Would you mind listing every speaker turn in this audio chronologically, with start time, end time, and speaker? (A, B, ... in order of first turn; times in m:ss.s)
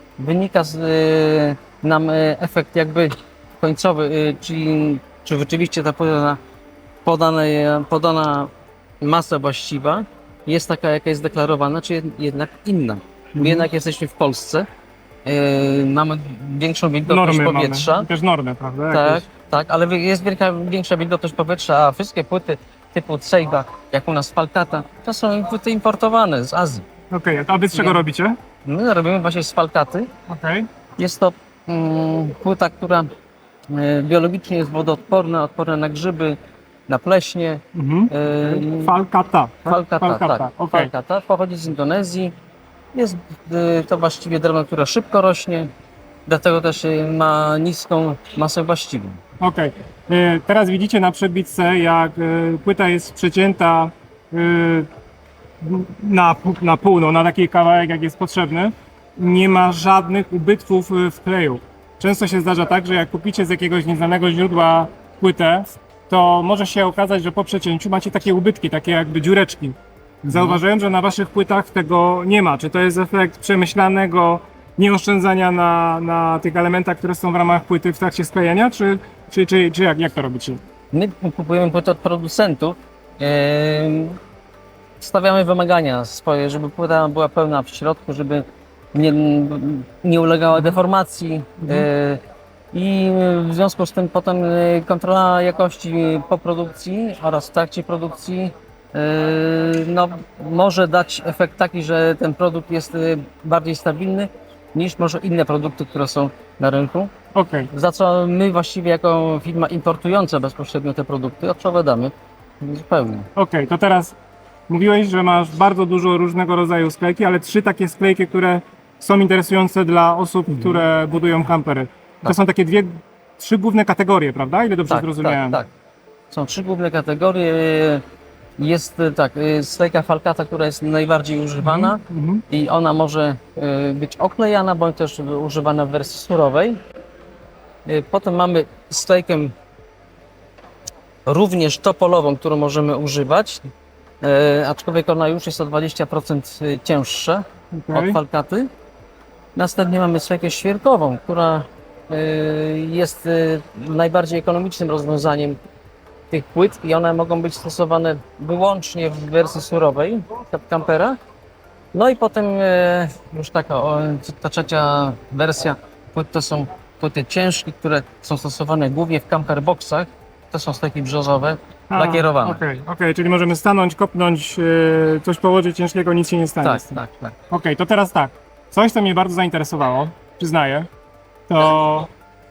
0:00.2-0:06.4 A
0:07.0-0:14.7 A
0:13.3-0:13.7 B
0:15.2-0:18.1 A
0:17.1-0:19.2 B
0:18.9-0:26.8 A
0:27.1-0:28.4 B
0:27.7-0:28.0 A
0:28.6-0:30.1 A
0:30.3-0:30.7 B
0:31.0-0:33.1 A
0:33.7-0:36.4 A
0:36.9-0:39.0 A
0:37.7-0:40.9 B
0:39.6-0:42.3 A
0:42.9-0:45.7 A
0:46.2-0:49.2 A
0:49.4-0:54.9 B
0:55.6-1:20.6 B
1:10.3-1:10.6 A
1:20.9-1:24.2 A
1:25.0-1:47.1 A
1:31.6-1:31.9 B
1:47.3-1:47.7 B
1:47.7-1:53.3 A
1:53.3-1:54.1 B
1:54.7-2:05.6 B
2:00.5-2:00.8 A
2:04.9-2:05.7 A
2:06.3-2:08.0 A
2:08.6-2:16.8 A
2:11.6-2:12.4 B
2:17.8-2:19.5 A
2:21.3-2:23.7 A
2:24.2-2:28.7 A
2:27.8-2:28.2 B
2:29.5-2:35.6 A
2:36.3-2:41.2 A
2:41.9-2:52.6 A
2:51.9-3:00.9 B
2:56.6-2:57.3 A
3:01.5-3:02.1 B